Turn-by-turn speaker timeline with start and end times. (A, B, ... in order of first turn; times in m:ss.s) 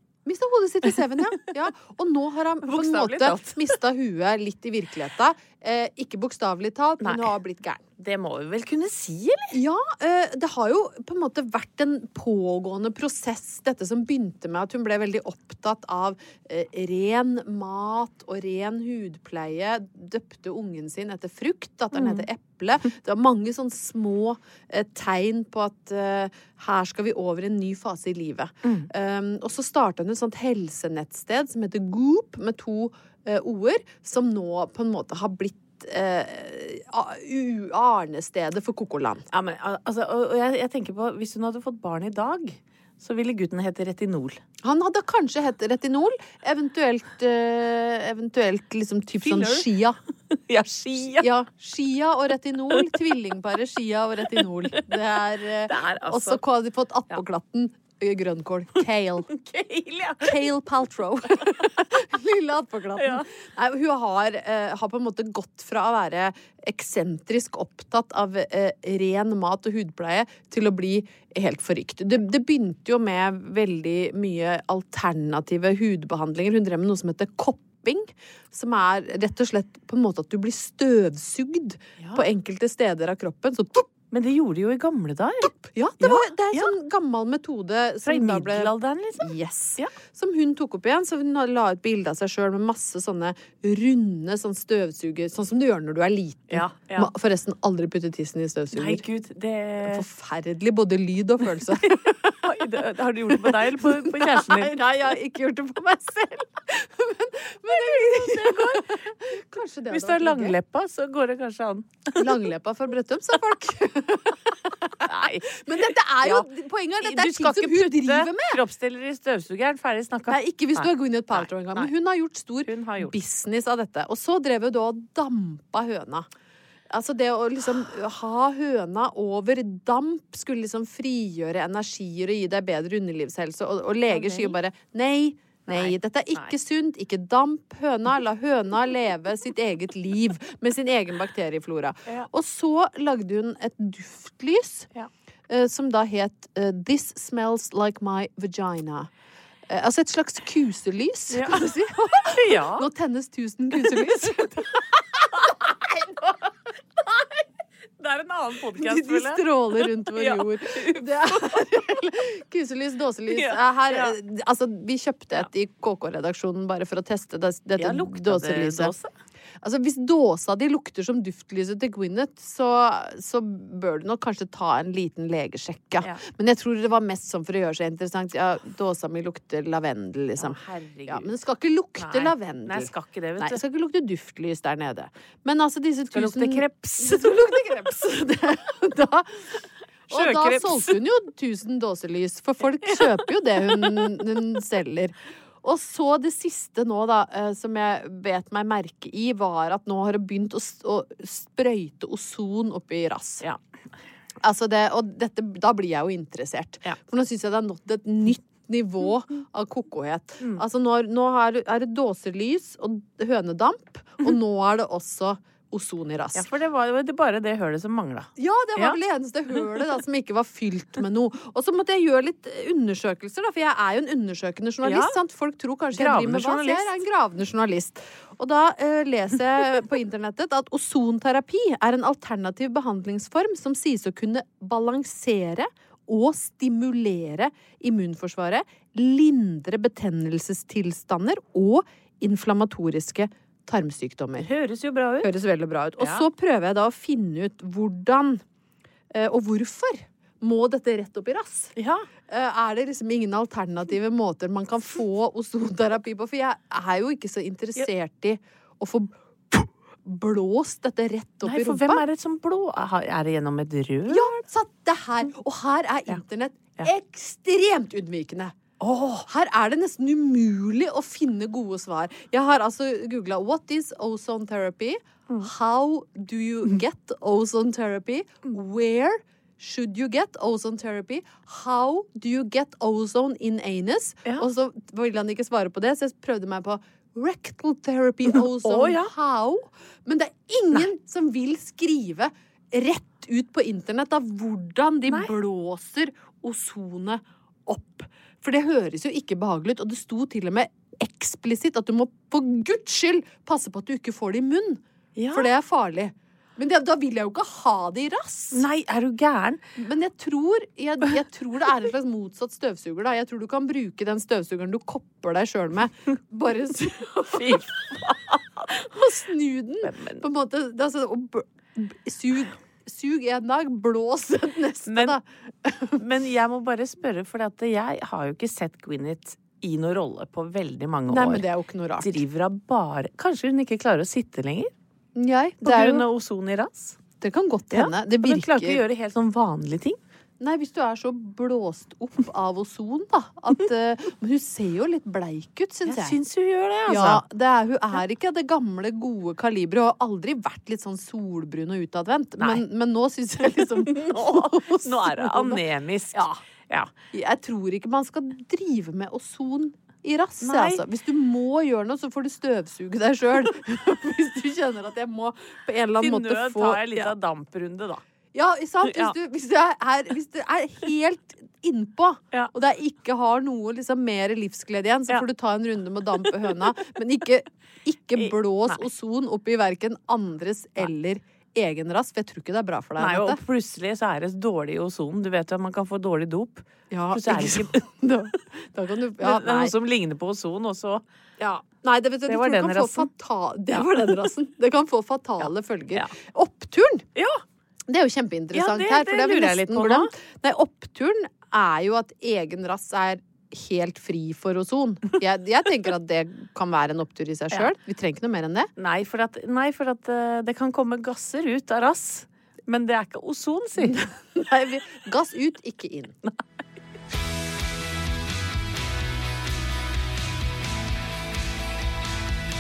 0:00.3-0:07.8 A
0:02.6-0:03.7 B
0:07.0-0:07.3 B
0:08.0-0:09.6 B
0:09.5-0:39.3 A
0:21.9-0:22.3 B
0:39.3-0:44.4 B
0:44.6-0:50.0 A
0:49.2-0:49.7 B
0:50.3-0:51.3 B
0:51.2-0:59.3 A
0:54.3-0:55.0 B
0:55.7-0:56.4 B
0:59.3-1:00.5 B
1:00.2-1:23.9 A
1:01.4-1:01.8 B
1:03.0-1:03.3 B
1:22.0-1:22.3 B
1:24.1-1:26.7 B
1:25.7-1:39.0 A
1:28.0-1:29.9 B
1:36.5-1:37.1 B
1:38.7-1:40.1 B
1:39.9-1:42.4 A
1:41.8-1:44.8 B
1:43.3-1:50.6 A
1:47.7-1:48.9 B
1:49.9-1:52.4 B
1:52.2-1:58.6 A
1:55.0-1:56.5 B
1:57.0-2:01.9 B
2:00.3-2:06.3 A
2:02.6-2:03.2 B
2:06.9-2:24.9 A
2:14.1-2:14.6 B
2:15.7-2:16.5 B
2:25.5-2:29.1 A
2:29.7-2:34.8 A
2:31.3-2:32.9 B
2:33.8-2:34.1 B
2:35.2-2:36.5 B
2:37.0-2:37.4 B
2:38.0-2:41.6 B
2:38.8-2:48.9 A
2:43.3-2:44.2 B
2:47.8-2:49.1 B
2:49.6-3:09.5 A
3:00.4-3:01.3 B
3:02.0-3:03.6 B
3:06.1-3:07.3 B
3:10.1-3:23.5 A
3:10.1-3:11.0 B
3:12.8-3:14.4 B
3:24.4-3:36.4 A
3:36.3-3:39.0 B
3:38.4-4:04.5 A
3:44.8-3:45.2 B
3:45.9-3:46.9 B
4:04.4-4:05.3 B
4:05.2-4:08.4 A
4:06.0-4:06.3 B
4:09.1-4:11.7 A
4:11.8-4:12.1 B
4:12.3-4:22.0 A
4:21.4-4:24.3 B
4:24.1-4:28.6 A
4:28.8-4:29.3 B
4:29.3-5:08.6 A
4:48.3-4:49.1 B
4:55.1-4:55.3 B
5:05.2-5:05.5 B
5:08.5-5:09.6 B
5:09.8-5:17.7 A
5:17.3-5:18.8 B
5:18.7-5:26.0 A
5:19.8-5:20.2 B
5:24.9-5:25.2 B
5:26.0-5:31.4 B
5:31.1-5:32.2 A
5:32.0-5:34.7 B
5:35.2-5:36.1 A
5:35.6-5:37.0 B
5:37.2-5:38.8 A
5:37.7-5:40.0 B
5:40.4-5:46.2 A
5:45.9-5:47.2 B
5:46.9-5:55.6 A
5:52.4-5:52.6 B
5:53.6-5:56.9 B
5:56.1-5:56.4 A
5:57.1-6:07.1 A
6:00.4-6:00.8 B
6:06.0-6:08.0 B
6:08.3-6:23.4 A
6:08.8-6:09.2 B
6:18.2-6:18.8 B
6:23.0-6:27.9 B
6:26.9-6:29.7 A
6:29.2-6:31.0 B
6:31.4-6:37.1 A
6:32.3-6:33.1 B
6:35.4-6:36.1 B
6:37.2-6:37.4 B
6:37.9-6:48.7 A
6:38.5-6:40.1 B
6:48.8-6:54.1 B
6:53.8-6:56.2 A